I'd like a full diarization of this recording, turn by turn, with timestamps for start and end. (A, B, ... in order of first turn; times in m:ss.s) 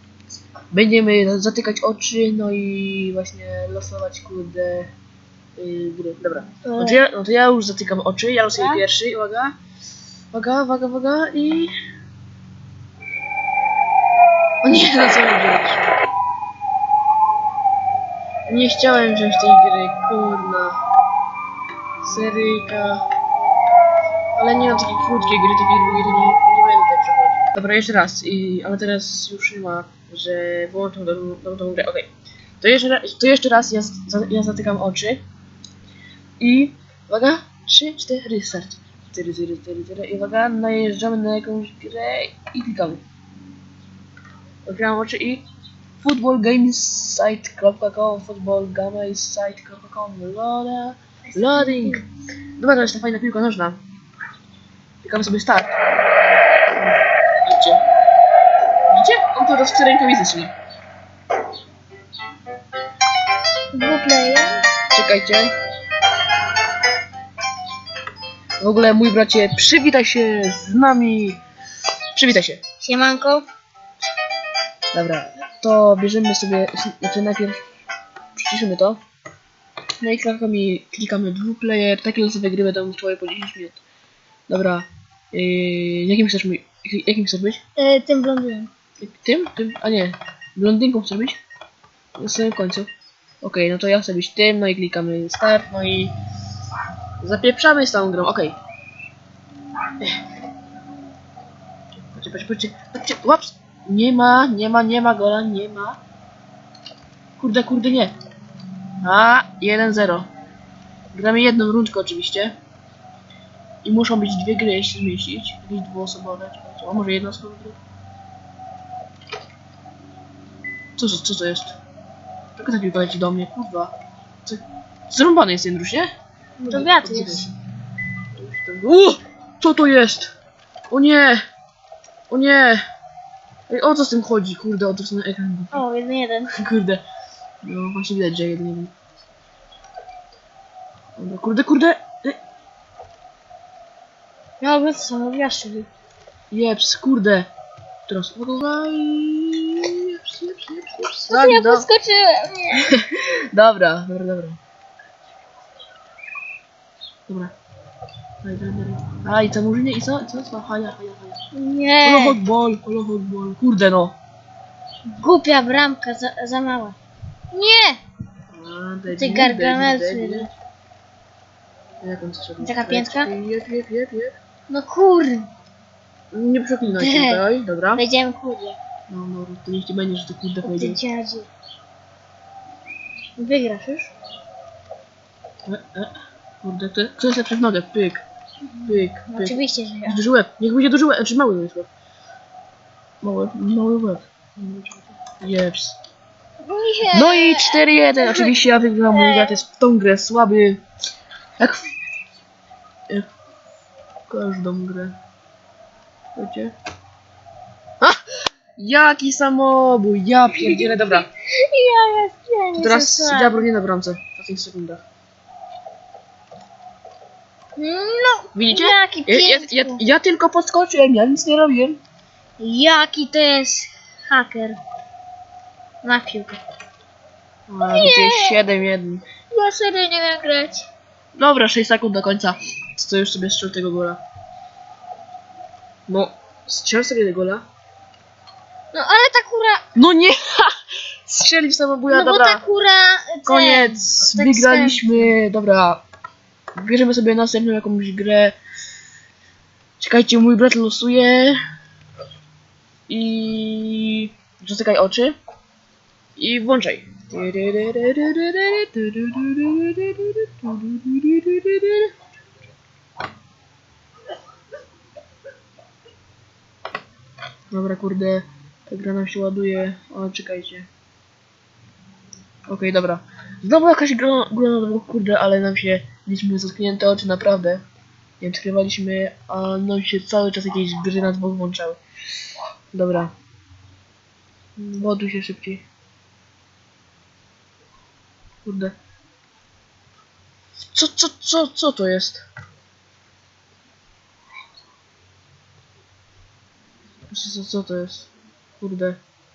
0:00.7-0:04.9 A
0:05.6-0:09.5 A
0:06.6-0:07.0 B
0:08.5-0:08.8 B
0:10.3-0:11.7 A
0:14.6-0:16.0 A
0:18.5-0:20.8 A
0:22.0-0:23.0 A
0:24.4-0:32.1 A
0:32.6-0:35.2 A
0:36.4-0:43.0 A
0:44.6-0:45.4 A
0:46.0-0:52.0 A
0:51.3-0:52.0 B
0:52.6-0:53.8 A
0:55.0-0:55.8 A
0:57.4-0:57.8 A
0:58.9-1:00.5 A
1:03.7-1:04.7 B
1:04.9-1:05.5 A
1:08.6-1:11.4 A
1:12.1-1:12.6 A
1:12.8-1:13.4 B
1:14.9-1:17.6 A
1:18.4-1:19.0 A
1:20.0-1:23.8 A
1:24.5-1:27.6 A
1:27.8-1:28.7 B
1:29.0-1:31.4 A
1:32.2-1:32.9 A
1:33.4-1:36.1 A
1:37.2-1:38.5 A
1:42.1-1:46.0 A
1:47.4-1:48.1 A
1:49.0-1:50.3 A
1:51.1-1:52.5 A
1:53.8-1:57.8 A
2:01.0-2:01.8 A
2:02.6-2:03.9 A
2:04.4-2:06.1 A
2:06.6-2:07.5 B
2:06.7-2:07.6 A
2:08.4-2:10.3 A
2:10.9-2:11.4 A
2:12.3-2:12.8 A
2:13.7-2:15.8 A
2:15.7-2:16.5 B
2:16.5-2:17.0 A
2:17.6-2:19.0 A
2:21.2-2:22.4 A
2:24.6-2:25.9 B
2:26.5-2:27.5 A
2:28.1-2:31.9 A
2:31.2-2:32.9 B
2:32.8-2:34.6 A
2:37.3-2:37.5 A
2:38.4-2:41.4 A
2:41.5-2:42.4 B
2:42.0-2:44.2 A
2:45.1-2:47.0 B
2:47.5-2:48.0 B
2:48.5-2:50.5 A
2:49.1-2:50.5 B
2:52.0-2:54.3 A
2:52.6-2:53.3 B
2:54.7-2:55.5 B
2:56.3-2:58.0 A
2:56.9-2:57.4 B
2:58.0-2:58.8 B
2:59.1-3:01.0 A
3:00.6-3:01.5 B
3:03.4-3:04.1 B
3:05.7-3:06.1 A
3:06.6-3:08.2 A
3:08.7-3:10.2 B
3:08.9-3:11.9 A
3:13.2-3:16.0 A
3:16.6-3:19.6 B
3:17.1-3:20.8 A
3:21.6-3:21.9 A
3:24.3-3:25.2 A
3:26.4-3:26.7 A
3:28.8-3:31.3 A
3:30.5-3:33.7 B
3:32.8-3:35.0 A
3:37.8-3:40.0 B
3:38.6-3:42.0 A
3:42.6-3:44.8 B
3:46.0-3:46.6 B
3:47.7-3:49.3 A
3:47.8-3:48.6 B
3:49.5-3:50.9 B
3:51.4-3:54.2 A
3:56.1-3:57.6 A
3:58.9-3:59.8 B
4:00.0-4:00.7 A
4:01.2-4:02.6 A
4:02.1-4:05.3 B
4:03.4-4:06.0 A
4:06.8-4:08.6 A
4:10.0-4:11.6 A
4:13.1-4:15.4 A
4:16.4-4:22.1 A
4:27.7-4:30.9 A
4:32.7-4:37.8 A
4:38.4-4:42.0 A
4:42.9-4:43.3 A
4:44.8-4:45.8 A
4:48.6-4:48.9 A
4:50.9-4:52.4 A
4:57.3-4:59.2 A